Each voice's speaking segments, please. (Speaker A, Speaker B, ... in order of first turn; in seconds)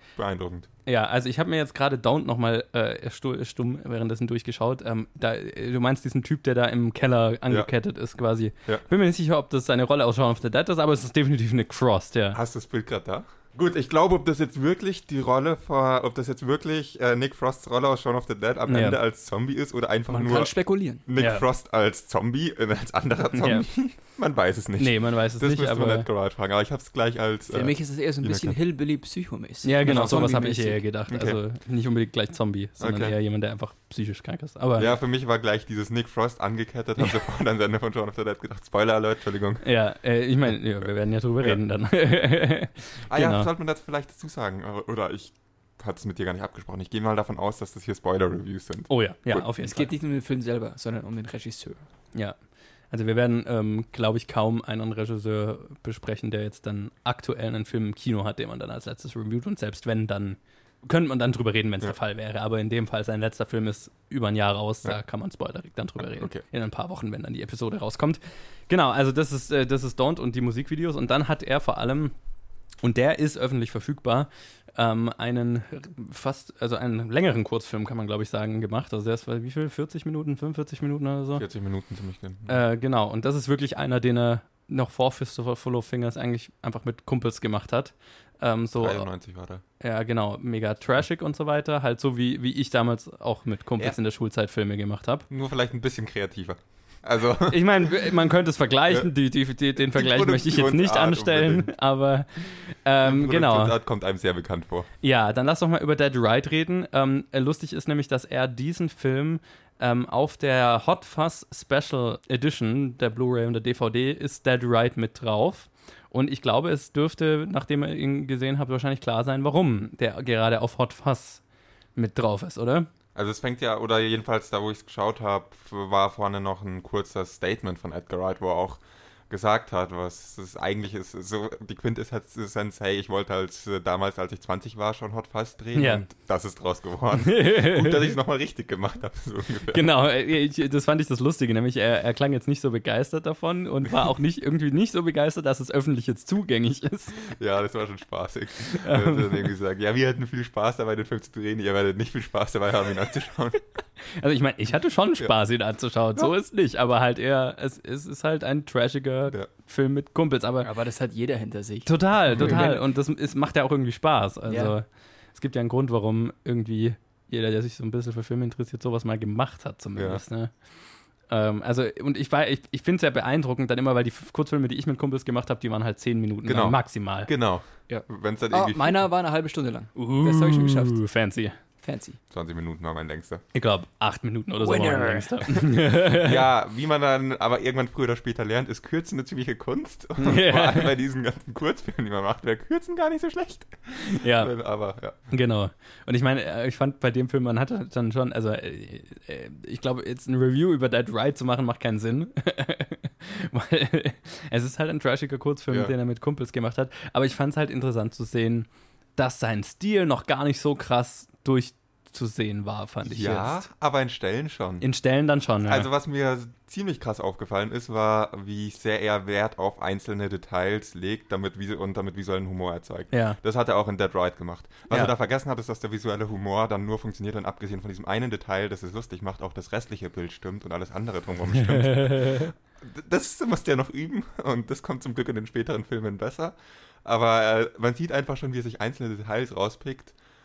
Speaker A: 0.2-0.7, 12.3-20.5, 21.1-28.6, 31.1-31.4, 32.8-33.1, 34.8-39.6, 43.0-49.5, 66.2-66.4, 81.4-82.6, 88.8-89.6, 95.3-97.9, 99.9-101.7, 103.0-104.9, 123.1-139.9, 147.2-153.6, 162.3-162.6, 169.9-170.2, 176.4-179.0, 182.3-183.4, 185.9-195.2, 213.0-214.8, 215.6-240.1
Speaker B: 0.8-12.4, 18.7-19.0, 21.2-21.4, 23.3-23.7, 24.8-26.1, 29.6-34.9, 39.6-43.5, 48.9-49.9, 52.9-72.1, 72.8-81.4, 82.5-89.1, 89.8-95.2, 97.5-103.8, 105.0-121.4, 122.0-122.9, 135.7-136.0, 137.2-138.1, 139.7-147.2, 148.8-149.4, 154.1-160.7, 161.8-170.5, 171.3-177.3, 179.9-181.6, 183.5-186.4, 190.2-190.9, 194.0-194.5, 195.3-213.6, 214.8-215.9, 223.1-223.4, 231.5-232.5
Speaker C: 20.1-21.0, 27.5-30.8, 49.6-51.9, 160.6-162.8, 164.5-164.7, 177.9-181.0, 181.8-182.2, 184.6-185.6